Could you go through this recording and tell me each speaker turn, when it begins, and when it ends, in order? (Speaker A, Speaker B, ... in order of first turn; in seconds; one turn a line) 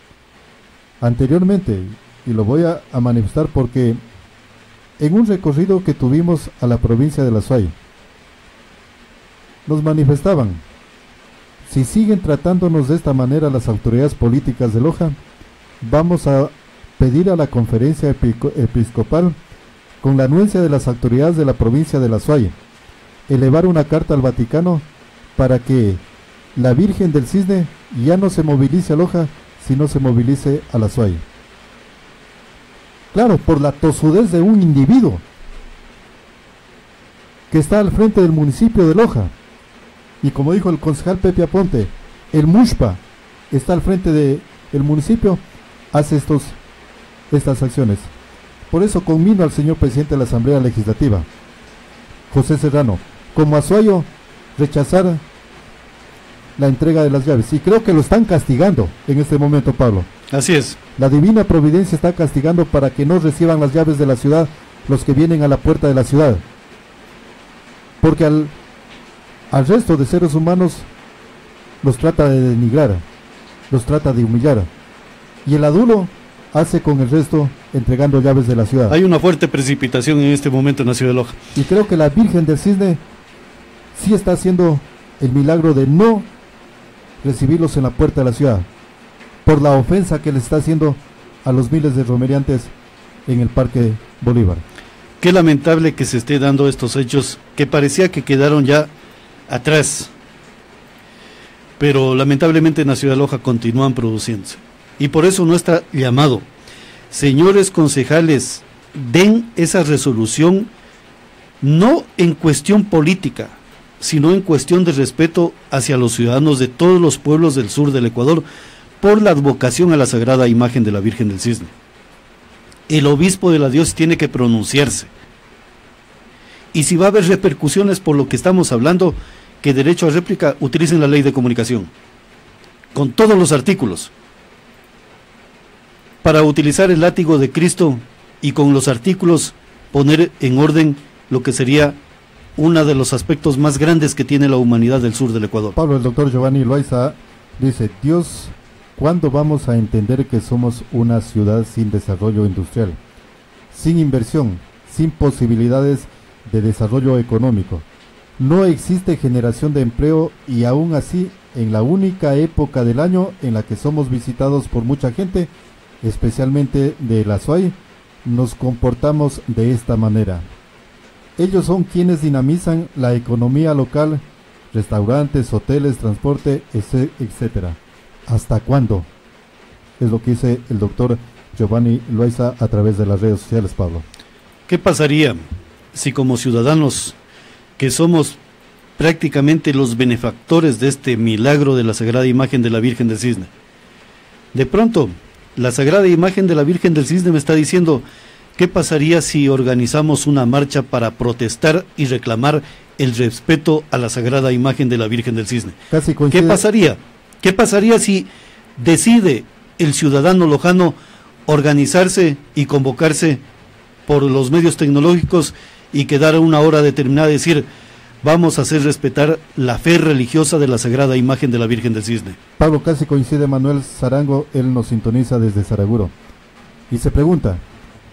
Speaker A: 1.0-4.0
Speaker A: 5.0-7.7
Speaker A: 9.7-10.6
Speaker A: 11.6-15.2
Speaker A: 15.8-19.4
Speaker A: 20.0-22.6
Speaker A: 23.3-26.0
Speaker A: 26.5-31.2
Speaker A: 33.1-35.2
Speaker A: 37.5-39.3
Speaker A: 40.2-46.6
Speaker A: 47.3-48.1
Speaker A: 48.7-51.3
Speaker A: 52.3-55.2
Speaker A: 56.6-60.1
Speaker B: 60.3-60.8
Speaker A: 61.0-66.4
Speaker A: 68.0-68.5
Speaker A: 69.5-70.9
Speaker A: 71.8-73.0
Speaker A: 73.7-74.7
Speaker A: 75.4-79.0
Speaker B: 78.9-81.4
Speaker A: 81.5-83.0
Speaker A: 83.9-86.3
Speaker A: 87.2-88.7
Speaker A: 89.4-92.7
Speaker A: 93.3-94.6
Speaker B: 95.2-98.9
Speaker B: 99.5-100.1
Speaker B: 101.8-106.5
Speaker B: 107.1-110.7
Speaker B: 111.6-118.4
Speaker B: 119.0-121.7
Speaker B: 122.9-125.1
Speaker B: 126.7-131.9
Speaker B: 132.9-134.1
Speaker B: 136.2-142.0
Speaker B: 142.6-145.7
Speaker A: 145.7-153.0
Speaker A: 153.7-157.8
Speaker A: 158.4-170.4
Speaker A: 171.4-179.1
Speaker A: 180.0-184.0
Speaker B: 184.7-185.4
Speaker B: 185.9-187.1
Speaker B: 187.8-188.4
Speaker B: 189.0-193.5
Speaker B: 194.5-198.1
Speaker B: 198.6-205.8
Speaker A: 205.9-206.6
Speaker B: 206.3-213.4
Speaker B: 214.1-217.7
Speaker B: 218.2-222.4
Speaker A: 222.6-226.1
Speaker A: 226.9-227.6